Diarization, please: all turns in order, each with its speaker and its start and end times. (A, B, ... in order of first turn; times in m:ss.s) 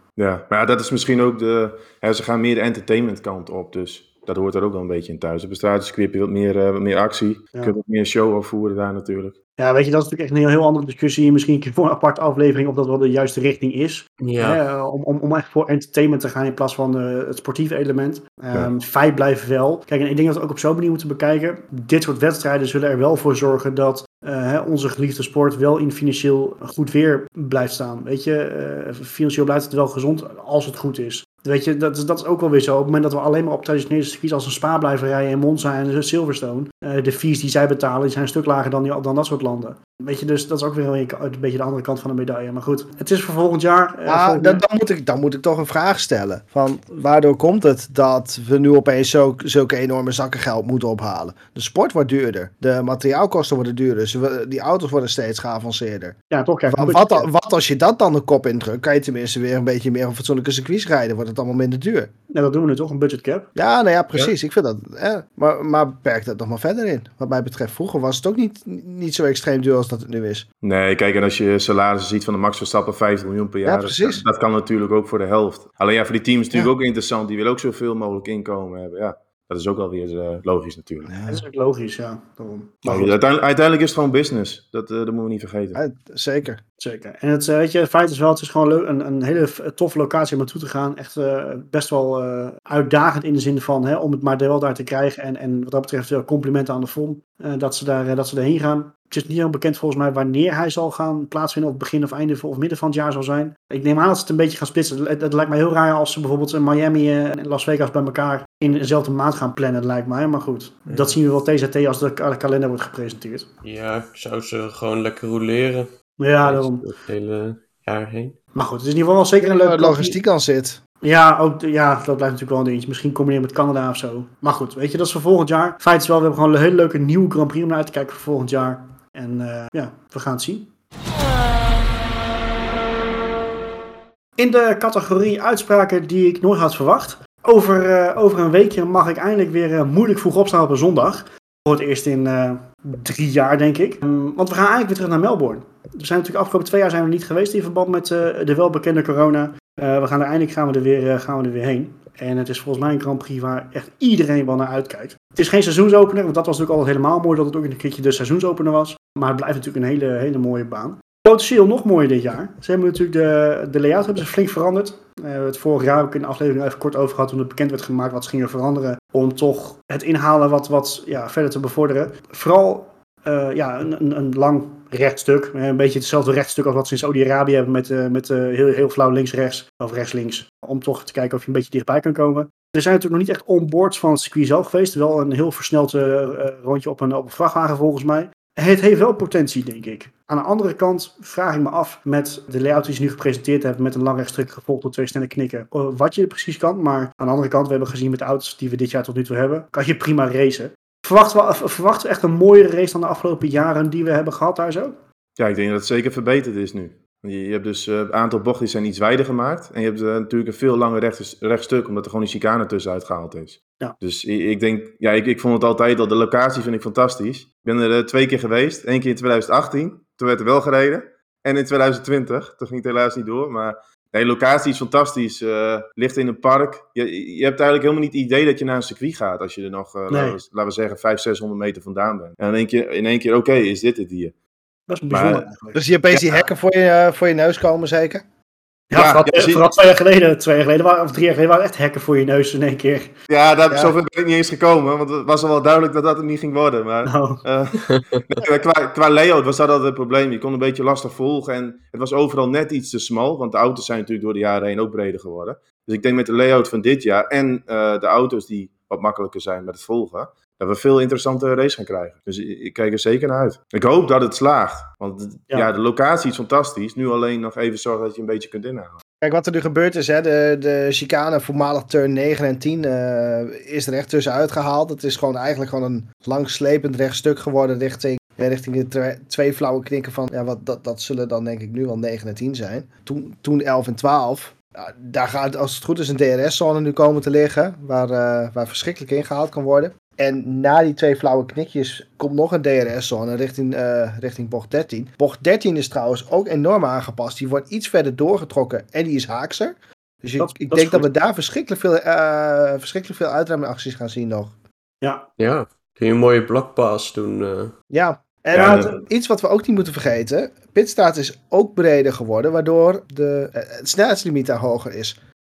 0:00.2-0:09.4 A
0:09.6-0:44.6 B
0:14.2-0:14.6 C
0:44.1-0:56.2 D
0:56.3-0:57.3 B
0:56.7-1:02.1 D
1:02.3-1:03.5 B
1:03.6-1:10.5 D
1:10.6-1:21.1 A
1:13.6-1:14.2 D
1:21.1-1:21.4 D
1:21.3-1:23.2 B
1:22.8-1:25.8 A
1:25.8-1:26.6 D
1:26.8-1:53.5 B
1:50.9-1:51.2 C
1:53.6-1:55.9 C
1:56.2-1:56.8 B
1:56.4-1:58.4 C
1:58.6-2:00.2 B
1:59.4-2:00.8 D
2:01.0-2:10.7 B
2:14.4-3:25.0 B
3:25.4-3:54.3 A
3:50.1-3:50.4 B
3:54.9-3:55.8 B
3:55.1-3:55.5 A
3:55.7-3:58.2 D
3:56.1-3:56.4 A
3:58.9-4:03.1 B
3:58.9-3:59.7 A
4:03.3-4:29.0 A
4:07.0-4:07.4 B
4:07.9-4:08.2 C
4:29.2-5:04.5 D
5:00.4-5:01.1 B
5:05.4-5:07.7 C
5:07.9-5:15.2 D
5:08.5-5:09.0 A
5:08.6-5:09.0 B